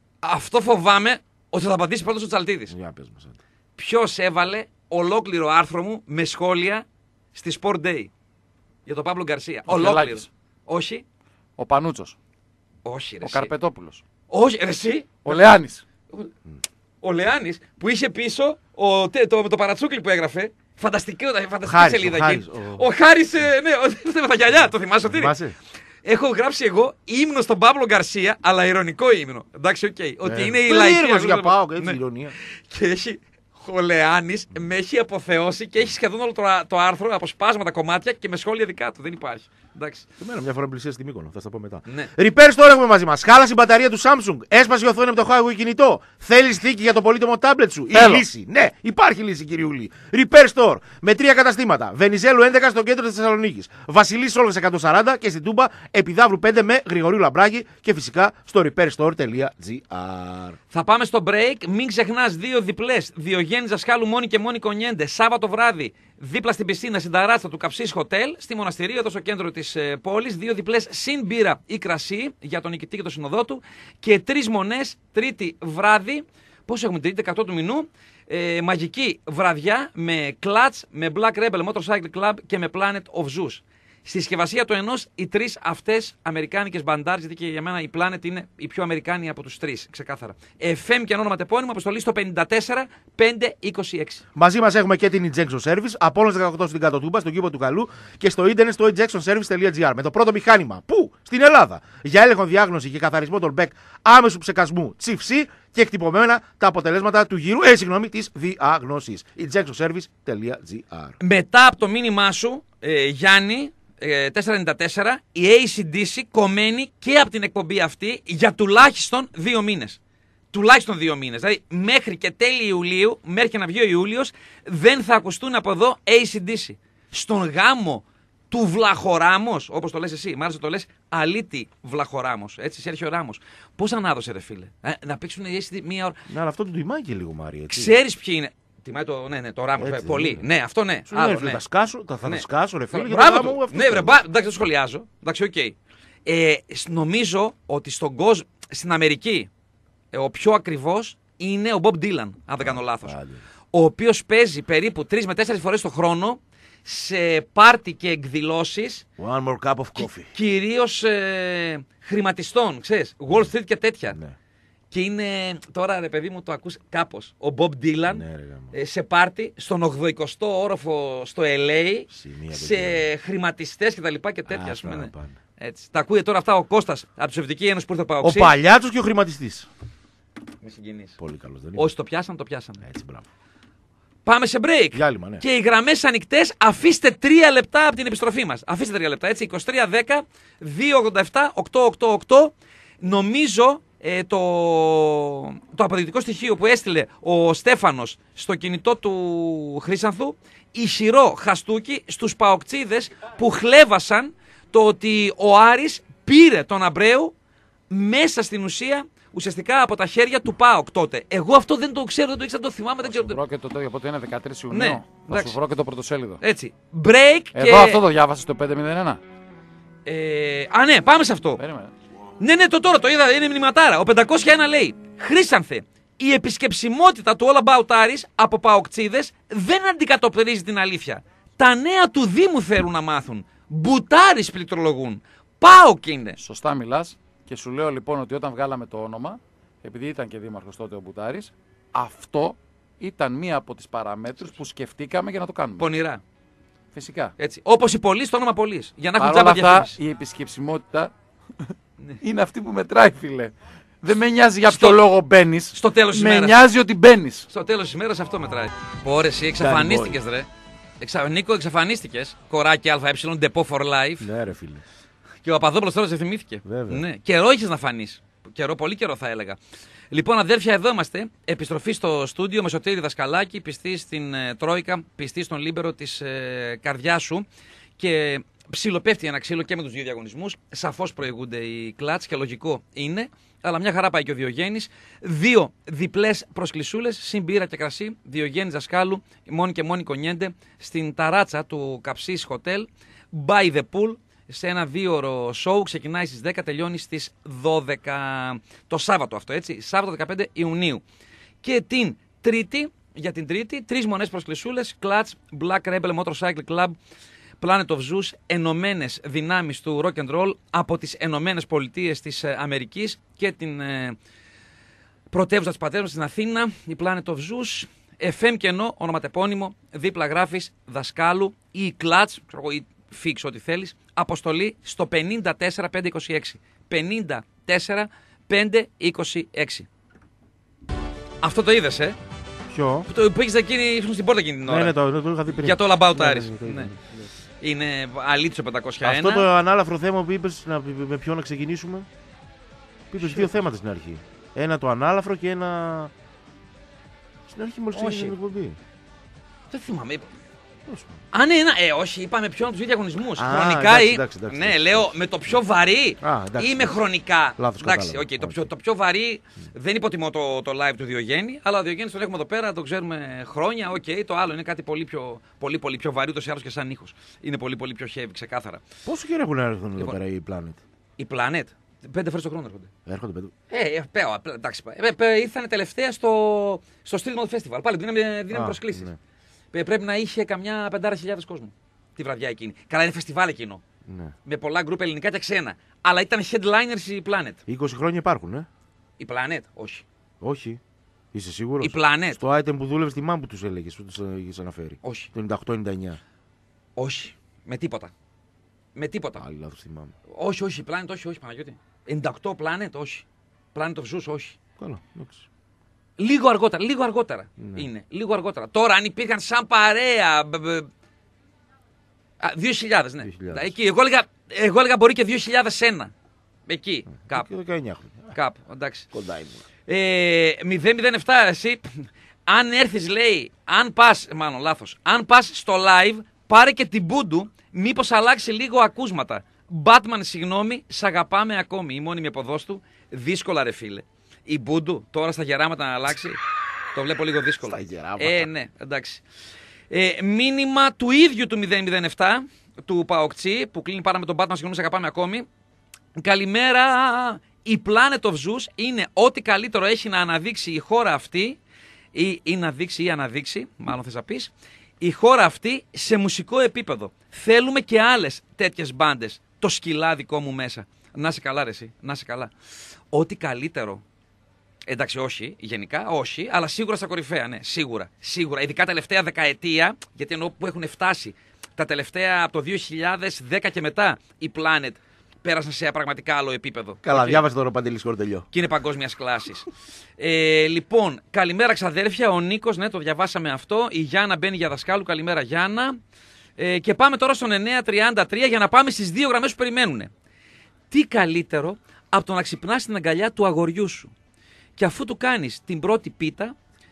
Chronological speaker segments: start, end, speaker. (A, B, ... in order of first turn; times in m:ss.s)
0:00.2-0:02.7 A
0:02.7-0:03.4 B
0:03.8-0:08.1 A
0:08.9-0:11.0 A
0:09.7-0:10.3 C
0:11.6-0:12.2 C
0:12.8-0:13.5 A
0:13.2-0:14.0 C
0:14.3-0:15.4 A
0:15.2-0:15.8 C
0:17.0-0:25.4 A
0:21.6-0:22.9 B
0:25.1-0:25.6 B
0:26.0-0:32.0 A
0:30.2-0:32.3 B
0:32.6-0:40.1 A
0:40.2-1:00.6 B
0:48.0-0:48.2 C
1:00.7-1:34.2 A
1:34.4-1:51.1 B
1:51.2-2:00.0 A
2:00.5-2:16.2 A
2:16.3-2:18.0 B
2:17.7-2:21.6 A
2:19.8-2:20.4 B
2:21.1-2:24.2 B
2:22.2-2:25.7 A
2:26.3-2:29.5 A
2:30.1-2:33.2 A
2:32.6-2:33.4 B
2:33.7-2:39.0 A
2:39.2-2:40.3 B
2:40.0-2:44.2 A
2:44.9-2:58.5 A
2:48.1-2:48.7 B
2:52.1-2:53.0 B
2:54.5-2:55.4 B
2:58.2-2:59.7 B
3:00.6-3:01.2 A
3:01.2-3:01.9 B
3:01.8-3:02.8 A
3:02.8-3:03.3 B
3:04.2-3:27.3 A
3:04.9-3:05.4 B
3:27.9-3:33.4 A
3:33.0-3:36.4 C
3:34.7-3:35.6 A
3:36.4-3:38.0 A
3:37.5-3:39.2 C
3:40.0-3:41.6 A
3:41.6-3:41.9 C
3:42.4-3:56.4 A
3:56.4-4:05.9 C
4:05.8-4:06.2 A
4:07.0-4:07.3 C
4:07.4-4:10.0 A
4:09.2-4:11.1 C
4:12.2-4:17.5 C
4:14.7-4:15.0 A
4:15.7-4:16.6 A
4:17.5-4:20.5 A
4:19.6-4:20.2 B
4:21.0-4:24.3 A
4:24.2-4:24.8 B
4:25.4-4:29.6 A
4:26.6-4:27.0 B
4:30.1-4:37.4 A
4:38.0-5:01.0 A
5:01.6-5:07.0 A
5:07.6-5:14.2 A
5:15.3-5:29.9 A
5:31.4-5:32.2 A
5:32.7-5:33.1 B
5:33.1-5:35.0 A
5:34.7-5:37.3 B
5:35.5-5:36.9 A
5:37.6-5:39.5 A
5:39.0-5:42.1 B
5:43.1-5:46.1 B
5:47.5-5:48.8 B
5:47.9-5:48.4 A
5:49.7-5:50.3 A
5:51.3-6:08.8 A
5:53.4-5:55.1 B
5:56.2-5:57.0 B
5:57.6-5:58.7 B
6:09.0-6:10.8 B
6:11.2-6:12.9 A
6:13.0-6:13.5 B
6:13.7-6:19.1 A
6:18.5-6:19.2 B
6:19.7-6:23.8 A
6:24.0-6:24.3 B
6:24.4-6:27.6 A
6:27.7-6:28.7 B
6:29.2-6:30.0 A
6:30.4-6:30.8 B
6:31.3-6:36.2 B
6:31.8-6:32.4 A
6:35.0-6:35.3 A
6:37.0-6:38.1 A
6:39.0-6:39.4 A
6:39.4-6:40.1 B
6:40.3-6:44.6 A
6:44.8-6:45.4 B
6:46.2-6:50.9 A
6:47.6-6:47.9 B
6:52.4-6:56.1 A
6:53.2-6:53.7 B
6:56.7-6:57.5 A
6:57.2-6:58.4 B
6:58.3-6:59.1 A
6:59.1-6:59.6 B
6:59.9-7:16.4 A
7:17.0-7:19.2 A
7:17.6-7:18.5 B
7:19.9-7:25.5 A
7:26.2-7:31.6 A
7:32.1-7:42.5 A
7:43.1-7:44.0 A
7:44.9-7:57.4 A
7:57.0-7:58.5 B
7:58.5-7:59.7 A
8:00.2-8:06.0 A
8:06.6-8:10.1 A
8:10.9-8:14.1 A
8:14.8-8:16.6 A